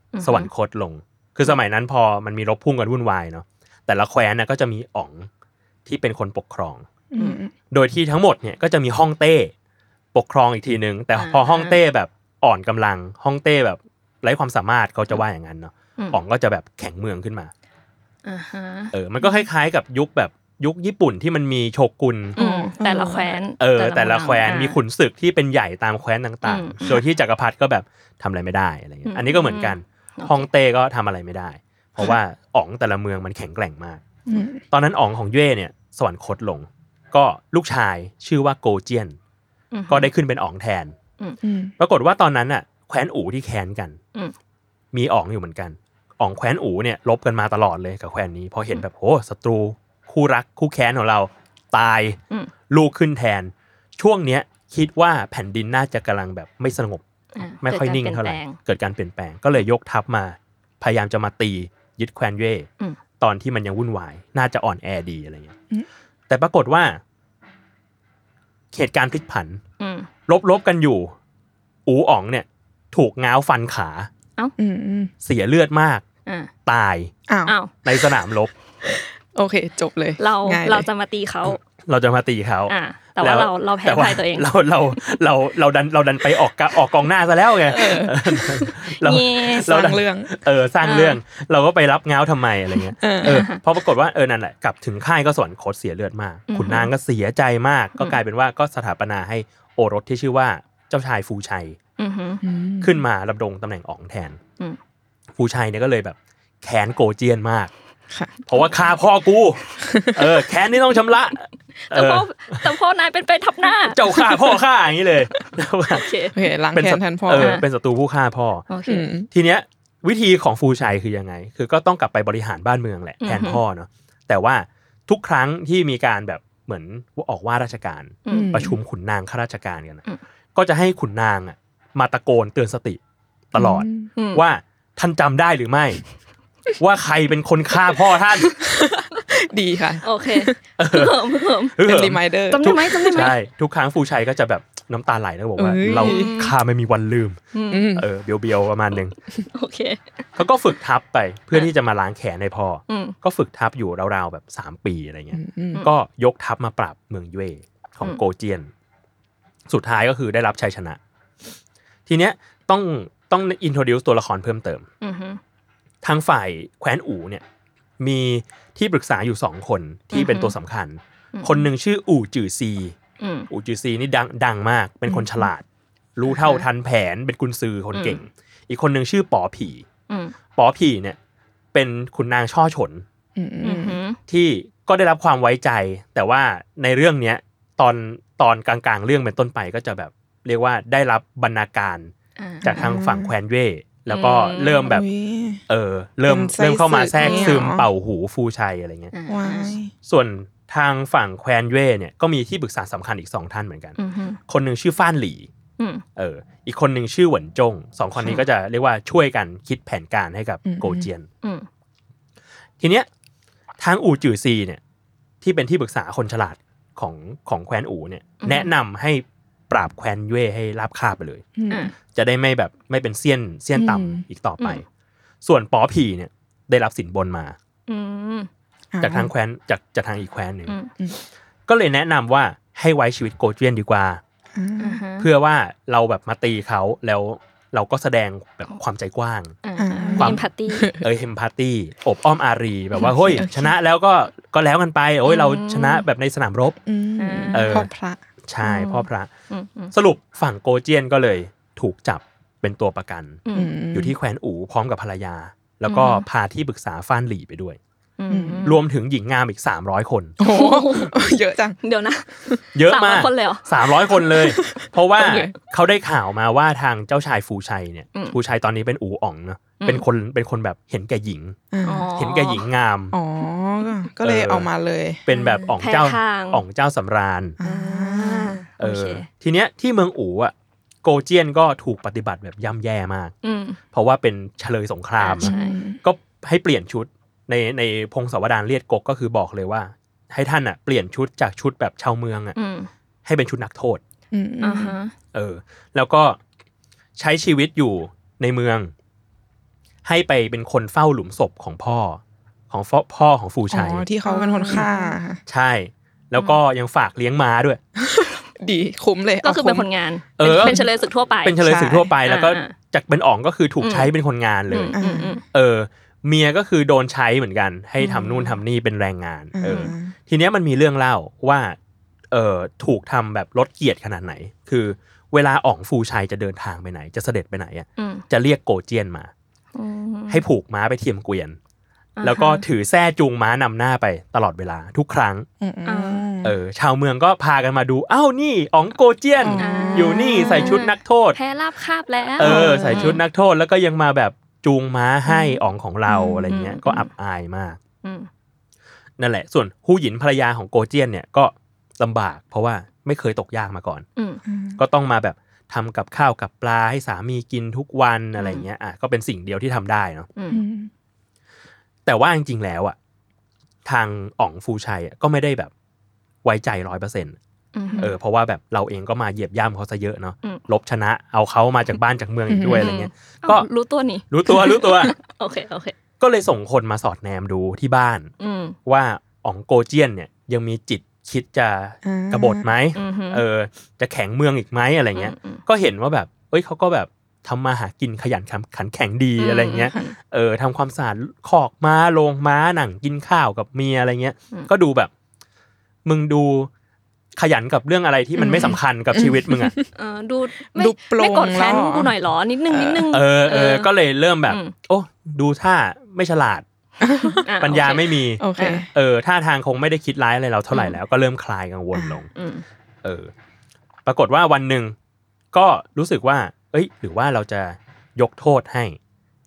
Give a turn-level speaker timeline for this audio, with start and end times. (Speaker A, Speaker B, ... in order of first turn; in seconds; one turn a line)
Speaker A: 0.1-0.5
Speaker B: 0.2-5.3
Speaker B: 5.8-6.9
Speaker C: 7.1-7.5
Speaker B: 7.7-9.5
Speaker B: 10.1-17.5
Speaker A: 11.2-11.8
Speaker A: 18.2-19.4
Speaker B: 18.9-22.4
Speaker C: 22.4-23.4
Speaker A: 22.4-24.8
Speaker B: 23.6-34.0
Speaker A: 26.4-27.0
Speaker A: 29.1-30.5
Speaker C: 34.3-34.6
Speaker B: 34.7-39.2
Speaker A: 39.7-40.1
Speaker B: 39.9-41.0
Speaker C: 41.4-41.7
Speaker B: 41.8-44.0
Speaker B: 44.9-52.2
Speaker B: 52.7-57.0
Speaker A: 57.4-58.6
Speaker B: 57.6-62.7
Speaker B: 63.2-65.5
Speaker B: 66.3-67.0
Speaker B: 68.7-69.6
Speaker A: 69.8-70.1
Speaker B: 70.3-71.2
Speaker B: 71.9-74.1
Speaker C: 74.6-75.1
Speaker B: 75.2-76.0
Speaker B: 76.7-77.1
Speaker C: 77.3-77.5
Speaker A: 77.5-77.7
Speaker B: 77.8-78.5
Speaker C: 78.9-80.9
Speaker A: 80.2-81.6
Speaker B: 81.8-101.8
Speaker A: 82.7-84.5
Speaker C: 87.7-88.4
Speaker A: 88.7-89.9
Speaker C: 89.5-90.3
Speaker A: 90.8-91.2
Speaker C: 93.0-93.5
Speaker A: 93.2-93.6
Speaker A: 96.5-96.9
Speaker A: 102.0-102.4
Speaker C: 102.4-103.0
Speaker B: 102.8-104.4
Speaker B: 105.4-107.7
Speaker B: 108.5-112.7
Speaker C: 109.8-110.4
Speaker A: 111.9-114.6
Speaker B: 113.9-116.1
Speaker A: 115.3-116.4
Speaker C: 116.3-117.6
Speaker B: 116.7-118.7
Speaker A: 117.4-117.6
Speaker A: 118.7-119.1
Speaker C: 118.9-119.3
Speaker B: 119.3-130.0
Speaker A: 123.2-123.6
Speaker A: 128.3-128.6
Speaker C: 128.3-128.8
Speaker B: 130.6-133.0
Speaker B: 133.5-136.0
Speaker C: 133.6-134.1
Speaker A: 134.2-134.4
Speaker B: 136.8-138.6
Speaker C: 138.6-140.6
Speaker A: 140.0-141.8
Speaker B: 140.8-141.2
Speaker B: 141.8-147.4
Speaker C: 141.8-143.3
Speaker A: 142.5-143.4
Speaker C: 145.6-146.4
Speaker A: 146.0-146.5
Speaker A: 147.5-147.9
Speaker C: 147.7-148.1
Speaker B: 148.0-149.2
Speaker A: 149.5-150.0
Speaker B: 150.4-158.7
Speaker A: 152.9-153.2
Speaker C: 155.3-155.9
Speaker B: 159.7-161.0
Speaker B: 162.1-164.9
Speaker A: 165.0-165.4
Speaker B: 166.0-167.4
Speaker B: 168.0-173.0
Speaker A: 170.1-170.6
Speaker A: 171.3-171.7
Speaker A: 173.2-173.5
Speaker B: 173.5-175.7
Speaker B: 176.2-179.9
Speaker A: 176.3-176.6
Speaker A: 177.9-178.2
Speaker A: 180.1-180.3
Speaker B: 180.6-181.2
Speaker B: 181.7-183.1
Speaker C: 183.4-184.0
Speaker A: 183.6-184.2
Speaker B: 184.3-195.0
Speaker A: 192.4-192.8
Speaker C: 192.7-193.3
Speaker A: 194.1-194.9
Speaker C: 194.8-195.6
Speaker B: 195.7-199.1
Speaker C: 196.3-197.9
Speaker A: 197.2-197.6
Speaker A: 199.1-199.8
Speaker C: 199.3-199.9
Speaker B: 200.1-204.0
Speaker A: 204.0-204.4
Speaker B: 204.5-205.5
Speaker A: 205.8-206.0
Speaker B: 206.2-211.3
Speaker C: 210.7-211.1
Speaker B: 212.8-213.1
Speaker B: 213.8-214.8
Speaker B: 215.4-221.4
Speaker A: 218.4-218.7
Speaker C: 221.6-221.9
Speaker B: 222.1-224.8
Speaker C: 223.8-224.2
Speaker B: 225.4-227.6
Speaker A: 227.9-228.5
Speaker C: 228.9-229.3
Speaker B: 229.0-230.7
Speaker B: 231.7-234.2
Speaker C: 234.6-235.0
Speaker A: 234.8-235.3
Speaker B: 235.2-239.6
Speaker A: 239.6-241.0
Speaker C: 239.8-241.0
Speaker B: 240.2-240.5
Speaker B: 241.0-246.8
Speaker C: 243.2-243.8
Speaker A: 245.2-246.1
Speaker C: 246.8-248.2
Speaker A: 247.2-247.9
Speaker B: 247.5-247.9
Speaker B: 248.5-249.3
Speaker A: 248.6-249.9
Speaker B: 249.9-253.4
Speaker A: 253.5-253.7
Speaker C: 253.5-254.2
Speaker B: 253.9-257.8
Speaker A: 255.9-256.2
Speaker A: 258.2-258.8
Speaker C: 258.3-258.7
Speaker B: 258.6-260.4
Speaker C: 260.4-261.8
Speaker A: 260.4-261.2
Speaker A: 261.8-264.2
Speaker B: 262.8-271.6
Speaker C: 264.2-265.5
Speaker C: 271.7-272.1
Speaker A: 271.8-272.6
Speaker B: 272.2-273.2
Speaker C: 273.1-275.2
Speaker B: 274.2-274.7
Speaker B: 275.3-277.6
Speaker A: 275.3-276.6
Speaker C: 277.6-278.6
Speaker A: 277.6-279.3
Speaker B: 278.8-280.5
Speaker B: 281.0-283.3
Speaker A: 283.4-283.8
Speaker B: 283.9-292.6
Speaker A: 285.2-285.8
Speaker C: 285.4-286.0
Speaker A: 292.6-292.9
Speaker B: 293.2-294.0
Speaker C: 294.3-295.0
Speaker A: 294.6-295.1
Speaker B: 295.3-296.4
Speaker B: 297.2-298.9
Speaker B: 300.1-304.1
Speaker C: 303.7-305.4
Speaker A: 304.2-305.2
Speaker B: 305.5-307.8
Speaker C: 308.0-309.9
Speaker A: 309.4-311.6
Speaker B: 310.4-310.9
Speaker C: 310.5-310.9
Speaker B: 311.4-315.0
Speaker C: 311.6-312.1
Speaker A: 312.2-312.7
Speaker A: 313.8-314.1
Speaker A: 314.7-315.4
Speaker C: 314.9-315.4
Speaker B: 315.5-321.8
Speaker A: 318.0-318.6
Speaker C: 319.6-320.1
Speaker A: 319.7-319.9
Speaker B: 322.3-329.3
Speaker A: 328.0-328.2
Speaker A: 329.8-330.4
Speaker B: 330.3-331.6
Speaker A: 332.2-332.6
Speaker B: 332.2-335.5
Speaker C: 335.6-336.6
Speaker A: 335.9-336.2
Speaker B: 336.4-341.4
Speaker C: 339.4-340.8
Speaker A: 339.6-343.2
Speaker B: 342.4-347.8
Speaker C: 342.4-343.2
Speaker C: 346.1-346.5
Speaker A: 346.5-347.1
Speaker A: 348.0-348.3
Speaker B: 349.2-354.1
Speaker C: 354.5-354.8
Speaker B: 354.8-360.3
Speaker A: 358.4-358.6
Speaker A: 360.4-360.6
Speaker C: 360.5-360.9
Speaker B: 362.1-363.0
Speaker B: 363.9-365.7
Speaker B: 366.4-367.4
Speaker A: 367.8-368.1
Speaker B: 368.0-373.7
Speaker C: 372.5-372.9
Speaker A: 372.7-376.0
Speaker B: 374.3-375.1
Speaker B: 376.2-378.3
Speaker A: 378.4-378.8
Speaker B: 378.9-395.1
Speaker C: 382.0-382.7
Speaker A: 382.9-383.4
Speaker A: 385.1-385.6
Speaker A: 389.4-390.1
Speaker B: 396.1-396.7
Speaker B: 397.4-399.8
Speaker C: 398.4-399.9
Speaker A: 399.9-403.9
Speaker C: 400.8-402.1
Speaker C: 402.7-403.1
Speaker B: 403.1-406.6
Speaker A: 404.5-404.7
Speaker C: 407.0-407.5
Speaker A: 407.3-408.9
Speaker B: 407.6-412.3
Speaker C: 408.4-408.9
Speaker A: 410.7-411.0
Speaker A: 412.3-412.6
Speaker B: 413.0-413.3
Speaker B: 414.1-415.0
Speaker B: 415.5-419.0